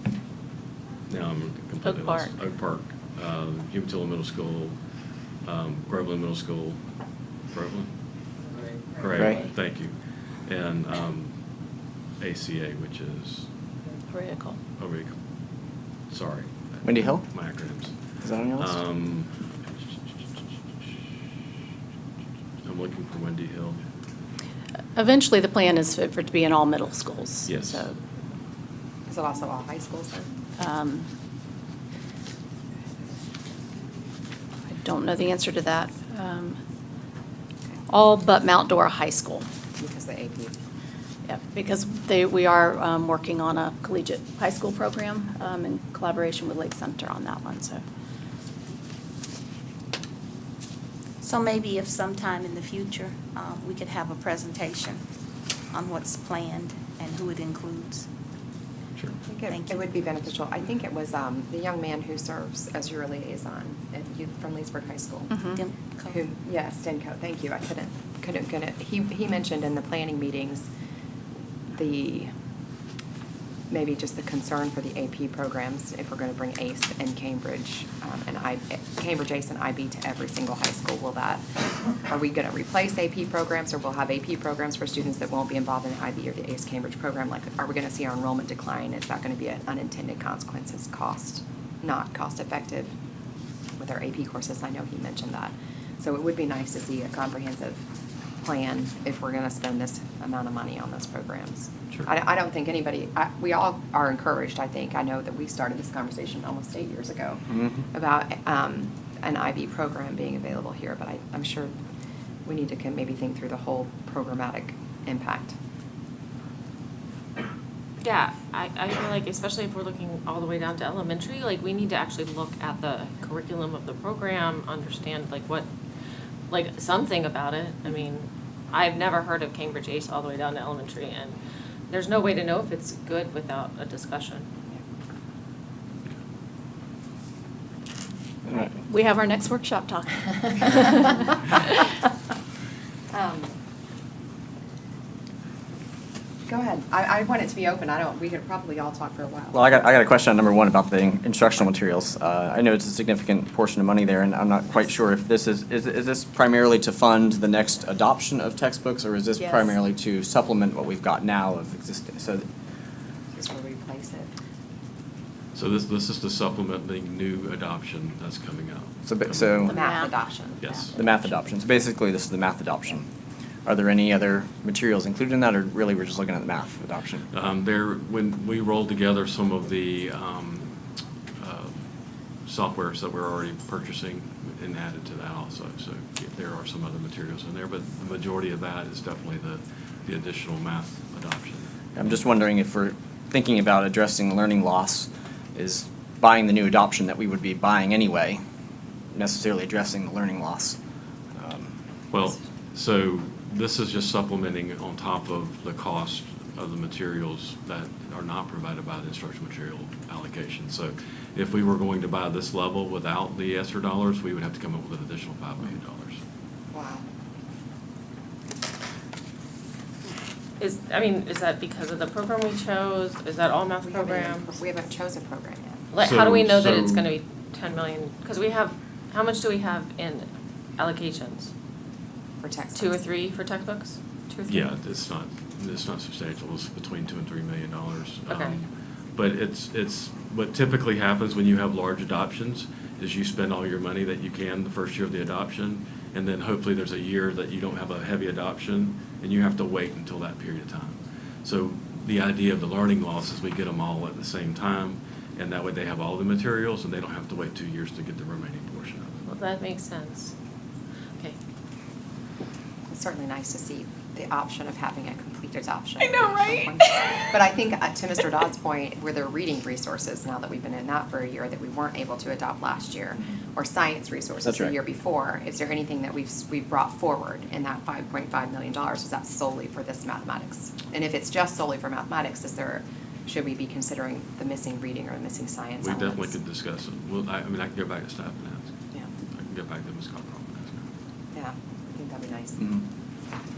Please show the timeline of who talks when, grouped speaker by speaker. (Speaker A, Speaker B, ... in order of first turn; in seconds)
Speaker A: 1.1-4.8, 5.4-6.9, 7.5-7.9, 8.9-11.4, 12.2-13.5, 14.8-15.2, 16.1-18.0, 18.5-19.9, 22.6-23.8, 27.4-27.8, 165.5-169.6, 170.6-170.9, 177.3-180.8, 181.4-181.9, 182.4-191.7, 202.1-216.2, 226.0-227.0, 234.5-259.3, 285.8-288.7, 289.3-290.9
Speaker B: 2.0-2.3, 118.0-125.7, 126.5-131.4, 131.9-134.4, 220.6-224.6, 225.9-231.5, 232.7-234.7, 238.3-238.6, 259.2-260.3
Speaker C: 14.1-14.6, 24.9-27.9, 30.6-31.1, 34.7-36.6, 37.9-39.5, 41.2-47.8, 65.3-65.6, 138.5-141.9, 169.6-170.2, 170.7-171.0
Speaker D: 16.8-17.2, 18.2-18.8, 107.5-107.8, 149.5-162.4, 169.0-169.8, 170.9-173.1, 173.6-177.3, 191.9-198.4, 199.1-200.8, 201.3-201.8, 274.4-274.7
Speaker E: 29.1-30.4, 39.8-40.5, 59.2-65.4, 66.1-70.7, 71.7-72.3, 73.7-81.4, 82.0-92.9, 93.8-97.8, 98.4-111.7, 112.4-115.5, 143.1-143.5, 146.5-149.6, 163.3-164.3, 169.7-170.7, 216.7-217.1, 223.8-225.8, 232.4-233.0, 262.9-286.3, 291.3-292.6
Speaker F: 51.2-55.0, 55.7-58.0, 59.5-60.0, 65.5-66.2, 266.0-266.7